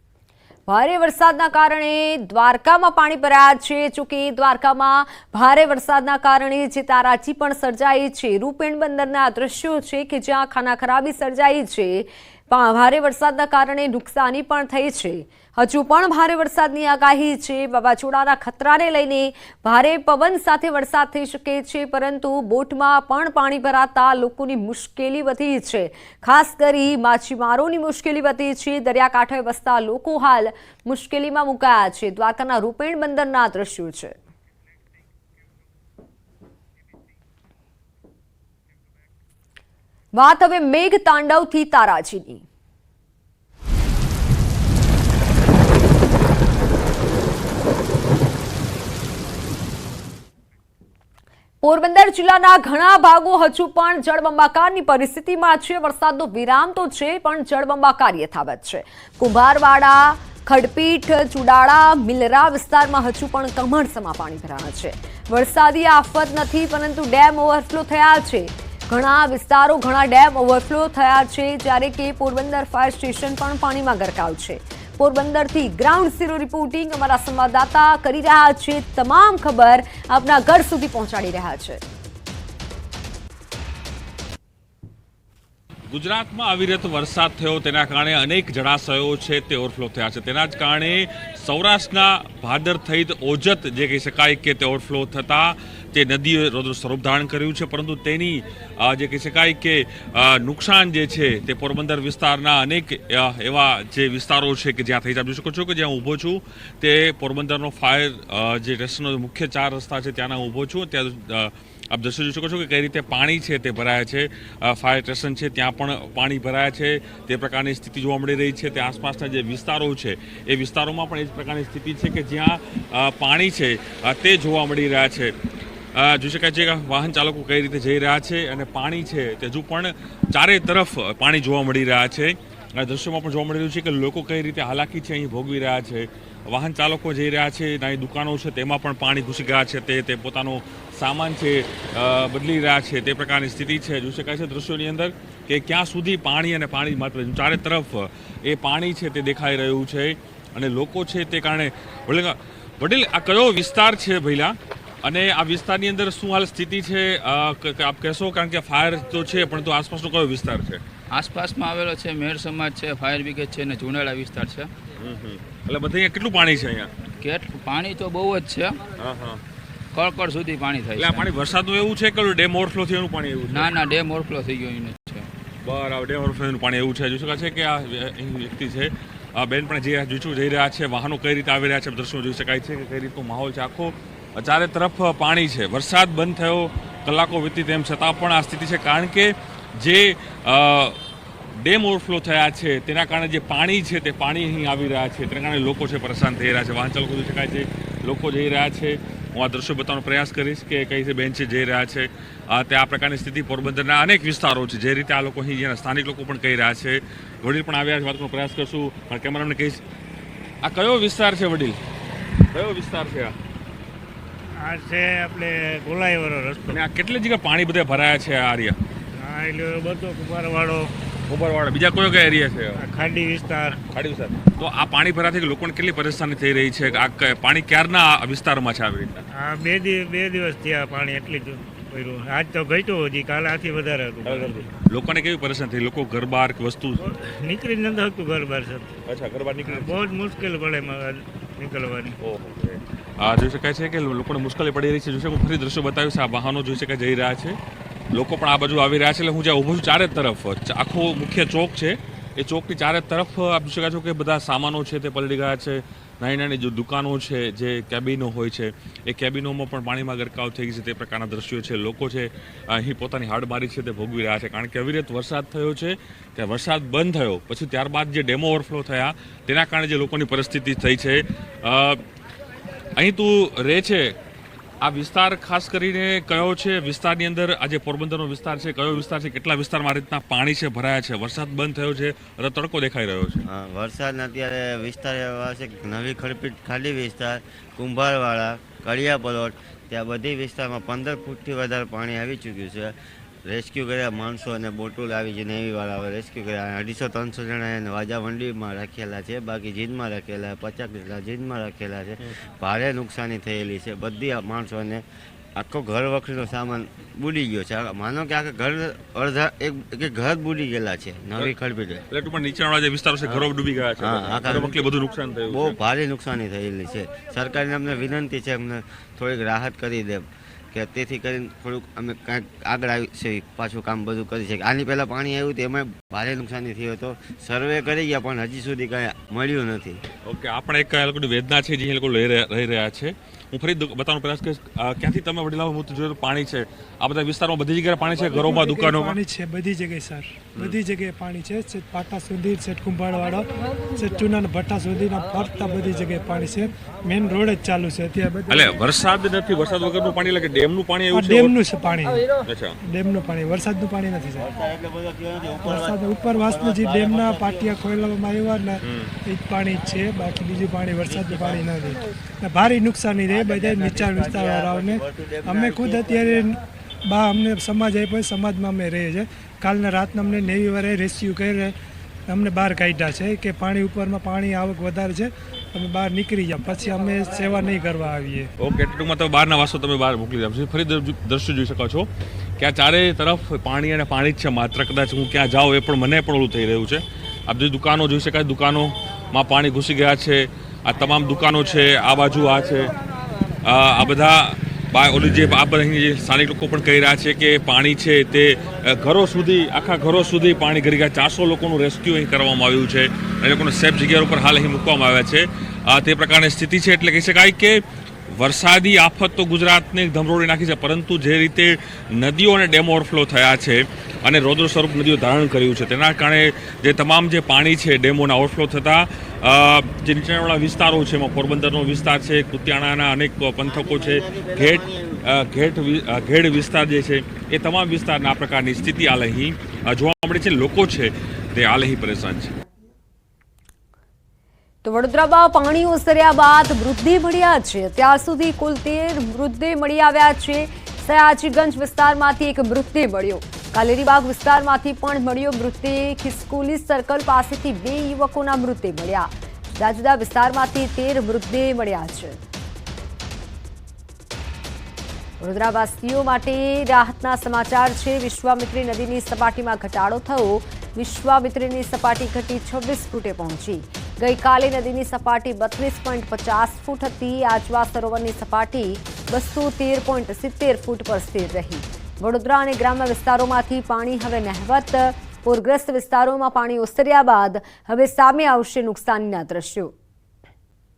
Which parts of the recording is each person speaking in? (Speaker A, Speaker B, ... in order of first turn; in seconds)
Speaker A: 0.7-34.1, 40.2-42.4, 51.6-81.8, 434.8-452.4, 455.4-479.9
Speaker B: 85.9-125.3, 126.0-160.8, 165.0-166.9, 169.0-169.4, 170.9-173.7, 175.6-191.0, 191.6-209.8, 210.6-211.8, 212.5-213.4, 216.7-218.8, 221.3-222.8, 223.9-229.2, 234.2-237.0, 239.1-240.0, 242.2-247.6, 248.1-272.0, 273.0-274.1, 274.8-283.4, 312.1-315.8, 330.2-339.2, 348.5-351.6, 352.5-352.8, 358.8-359.1, 378.6-382.1, 382.6-392.9, 393.6-407.8, 408.3-432.5
Speaker C: 161.1-164.7, 167.2-168.8, 169.9-171.3, 173.5-175.3
Speaker D: 214.6-216.8, 219.2-220.9, 222.8-223.8, 229.3-234.7, 237.0-238.9, 239.6-242.2
Speaker E: 283.4-305.0, 305.6-312.1, 314.0-314.8, 315.5-330.0, 354.5-355.7, 363.3-366.3, 423.6-425.2
Speaker F: 338.4-348.7, 351.1-352.2, 352.9-354.5, 355.6-371.8, 372.3-378.5